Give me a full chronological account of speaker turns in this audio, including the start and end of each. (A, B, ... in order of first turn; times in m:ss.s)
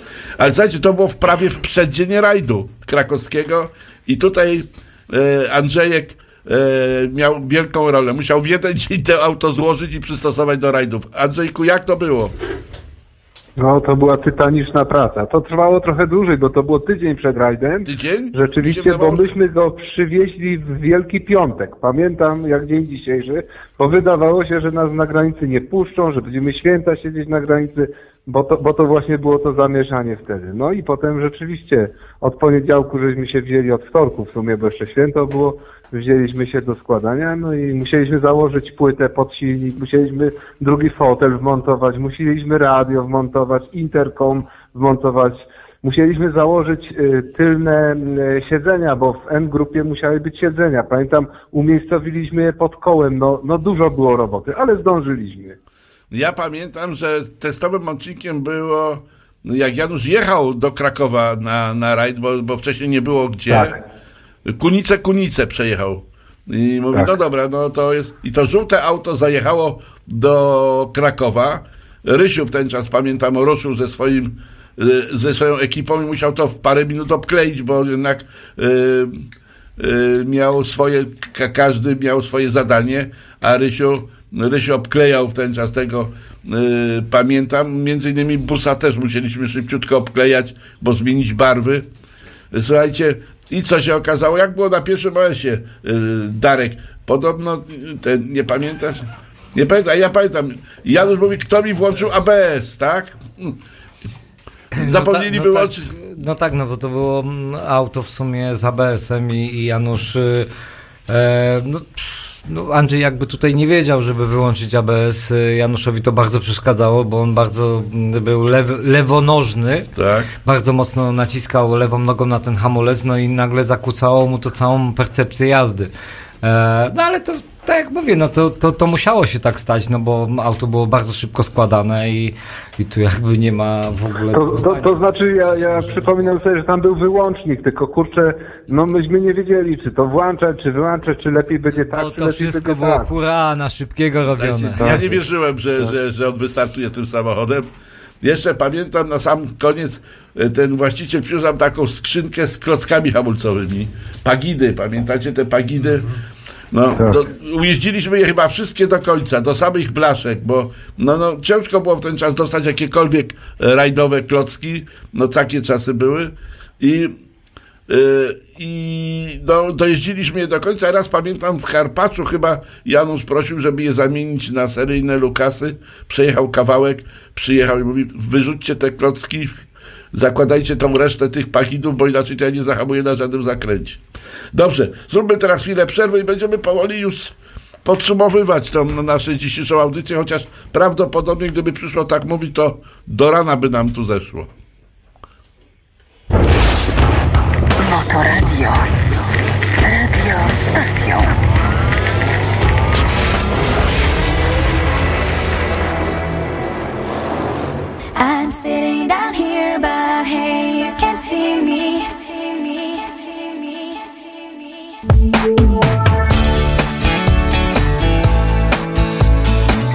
0:00.4-0:12.4 A
0:13.6-0:55.6 B
0:17.9-0:19.3 A
0:56.1-1:03.7 A
1:04.5-1:31.9 A
1:32.5-1:39.0 A
1:39.5-1:43.6 A
1:44.8-1:50.5 C
1:44.8-1:45.9 A
1:51.1-1:59.9 C
2:00.0-2:00.3 A
2:00.4-2:05.9 C
2:06.4-2:16.3 C
2:14.3-2:23.1 B
2:21.8-2:25.0 C
2:24.4-2:27.7 A
2:24.8-2:25.2 B
2:28.2-2:36.1 A
2:36.7-2:47.2 A
2:37.0-2:37.2 B
2:47.9-2:59.6 A
3:00.1-3:04.0 A
3:04.5-3:14.5 A
3:17.8-3:18.9 D
3:19.8-3:21.4 D
3:28.2-3:35.6 E